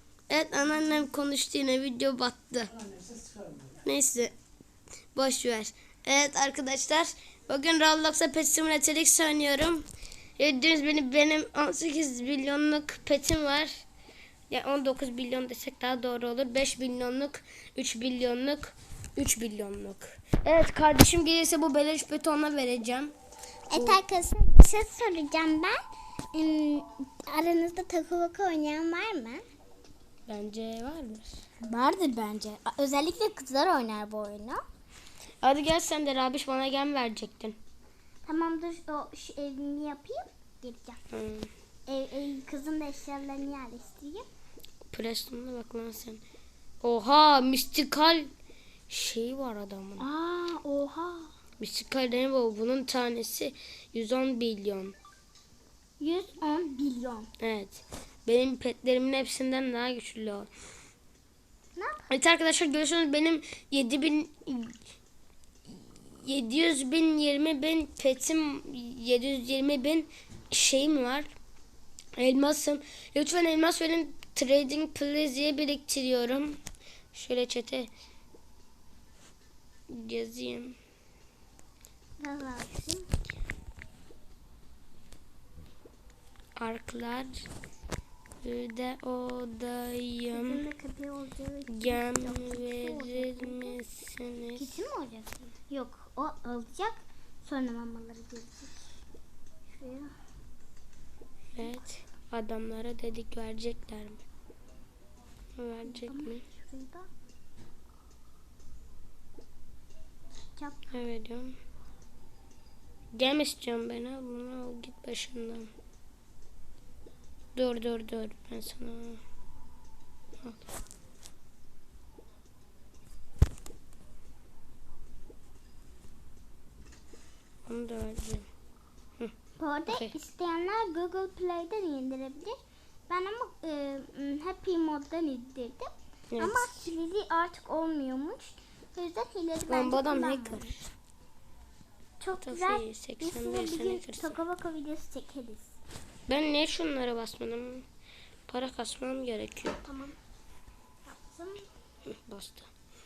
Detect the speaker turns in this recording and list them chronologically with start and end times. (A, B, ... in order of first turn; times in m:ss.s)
0:00.3-0:02.8 A
0:03.8-0:04.3 A
0:05.1-0:09.9 A
0:10.4-0:13.8 A
0:14.5-0:23.1 A
0:23.7-0:25.8 B
0:23.7-0:24.0 A
0:26.3-0:29.4 B
0:30.3-0:31.4 A
0:31.6-0:34.6 B
0:35.4-0:37.6 A
0:38.2-0:41.0 B
0:41.1-0:41.5 A
0:41.9-0:44.2 B
0:44.9-0:46.2 A
0:46.8-0:48.3 A
0:48.9-0:50.1 A
0:50.0-0:51.3 B
0:51.6-0:55.0 A
0:56.0-0:57.3 B
0:57.4-1:00.5 A
1:01.7-1:02.1 B
1:02.1-1:04.8 A
1:05.7-1:11.3 A
1:12.2-1:16.6 A
1:17.1-1:17.9 A
1:19.9-1:20.8 A
1:22.2-1:23.1 B
1:26.6-1:27.5 A
1:28.4-1:30.6 A
1:30.3-1:33.8 B
1:31.7-1:34.8 A
1:34.6-1:39.0 B
1:39.7-1:40.1 B
1:41.6-1:44.2 A
1:41.6-1:41.8 B
1:45.6-1:46.4 A
1:45.8-1:47.1 B
1:50.5-1:50.9 B
1:50.9-1:51.6 A
1:53.1-1:55.7 A
1:57.6-1:59.2 A
2:00.4-2:00.7 A
2:07.7-2:08.5 A
2:09.6-2:12.6 B
2:13.1-2:20.8 B
2:16.3-2:16.9 A
2:19.7-2:20.8 A
2:22.2-2:25.8 B
2:22.4-2:24.4 A
2:26.3-2:27.9 A
2:28.5-2:29.8 A
2:29.8-2:30.2 B
2:31.0-2:31.7 B
2:32.1-2:32.7 A